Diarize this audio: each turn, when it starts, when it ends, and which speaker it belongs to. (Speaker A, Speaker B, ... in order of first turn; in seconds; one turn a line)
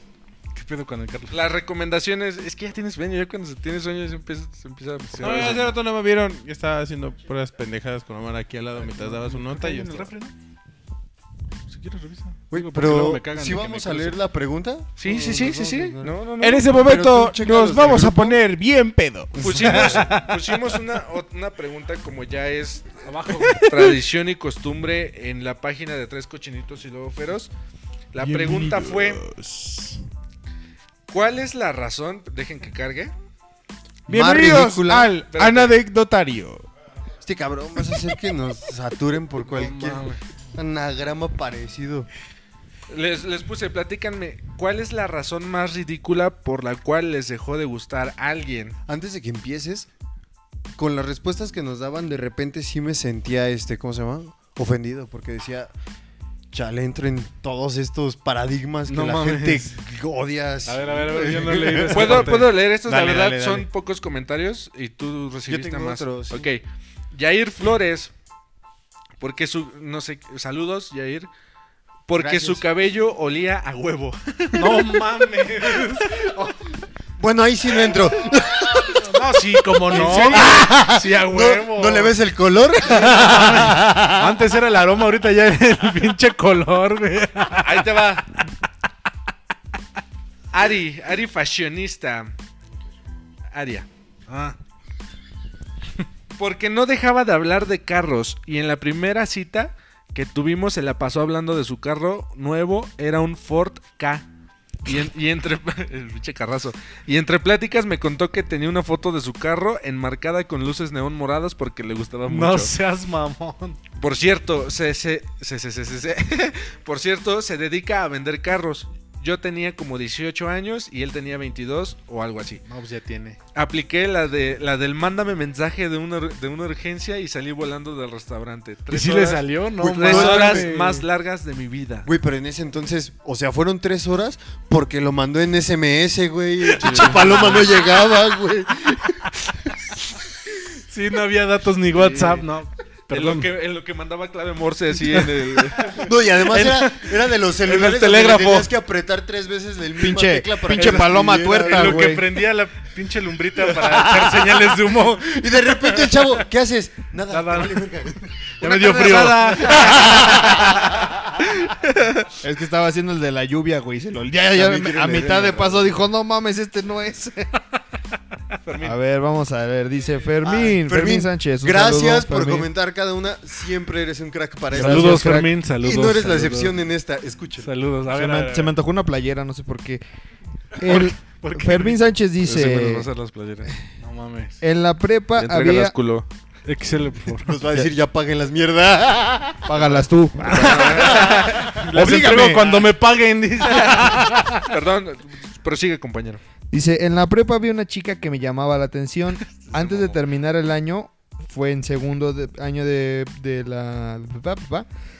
Speaker A: 0.5-1.4
Speaker B: 1.3-5.7
Speaker A: 5.1-5.7
Speaker C: 5.2-10.1
Speaker A: 8.8-10.3
Speaker A: 11.7-14.2
Speaker D: 12.5-16.2
Speaker B: 15.0-16.9
Speaker C: 15.2-15.7
Speaker C: 16.4-20.3
Speaker D: 16.7-18.4
Speaker D: 19.3-20.1
Speaker B: 19.4-27.5
Speaker A: 23.0-23.7
Speaker B: 28.1-29.2
Speaker C: 28.4-29.9
Speaker B: 31.1-33.1
Speaker D: 34.1-35.1
Speaker C: 34.1-36.6
Speaker B: 35.3-35.8
Speaker D: 37.2-42.1
Speaker A: 39.5-40.2
Speaker B: 42.9-48.8
Speaker D: 48.9-49.9
Speaker D: 50.8-55.7
Speaker D: 56.5-63.7
Speaker A: 58.9-59.8
Speaker A: 60.6-62.6
Speaker B: 61.9-68.1
Speaker D: 65.5-66.5
Speaker B: 69.2-71.3
Speaker B: 72.1-75.0
Speaker D: 72.2-72.6
Speaker A: 74.5-76.5
Speaker D: 77.2-84.4
Speaker A: 79.0-82.2
Speaker B: 79.9-80.6
Speaker A: 82.8-87.9
Speaker B: 87.6-88.3
Speaker B: 90.5-92.3
Speaker B: 93.5-93.9
Speaker A: 94.3-94.5
Speaker B: 96.4-104.2
Speaker B: 104.8-112.7
Speaker A: 112.2-113.8
Speaker B: 114.0-122.6
Speaker A: 122.6-123.4
Speaker B: 123.5-132.1
Speaker A: 128.9-131.1
Speaker D: 129.8-130.7
Speaker D: 132.1-139.9
Speaker A: 136.7-137.8
Speaker B: 136.8-137.4
Speaker A: 140.8-143.5
Speaker B: 141.9-142.4
Speaker B: 143.1-148.7
Speaker D: 145.9-152.2
Speaker E: 150.0-152.3
Speaker A: 150.7-156.3
Speaker D: 153.8-158.6
Speaker A: 157.3-157.9
Speaker A: 158.6-160.2
Speaker E: 158.6-160.6
Speaker B: 159.5-160.1
Speaker D: 159.7-161.1
Speaker B: 161.7-162.2
Speaker E: 162.3-167.6
Speaker D: 164.5-166.0
Speaker B: 168.6-169.0
Speaker E: 168.8-172.7
Speaker D: 170.4-177.7
Speaker A: 174.7-176.8
Speaker E: 174.7-175.5
Speaker A: 177.6-178.7
Speaker E: 178.1-180.0
Speaker E: 180.7-183.1
Speaker A: 180.8-182.0
Speaker B: 182.4-183.7
Speaker A: 184.0-184.6
Speaker E: 184.6-185.9
Speaker B: 185.4-186.3
Speaker A: 186.6-187.6
Speaker D: 187.4-189.7
Speaker E: 189.7-192.8
Speaker B: 190.4-191.8
Speaker A: 191.3-194.7
Speaker B: 193.6-196.4
Speaker E: 196.7-204.9
Speaker B: 199.6-200.2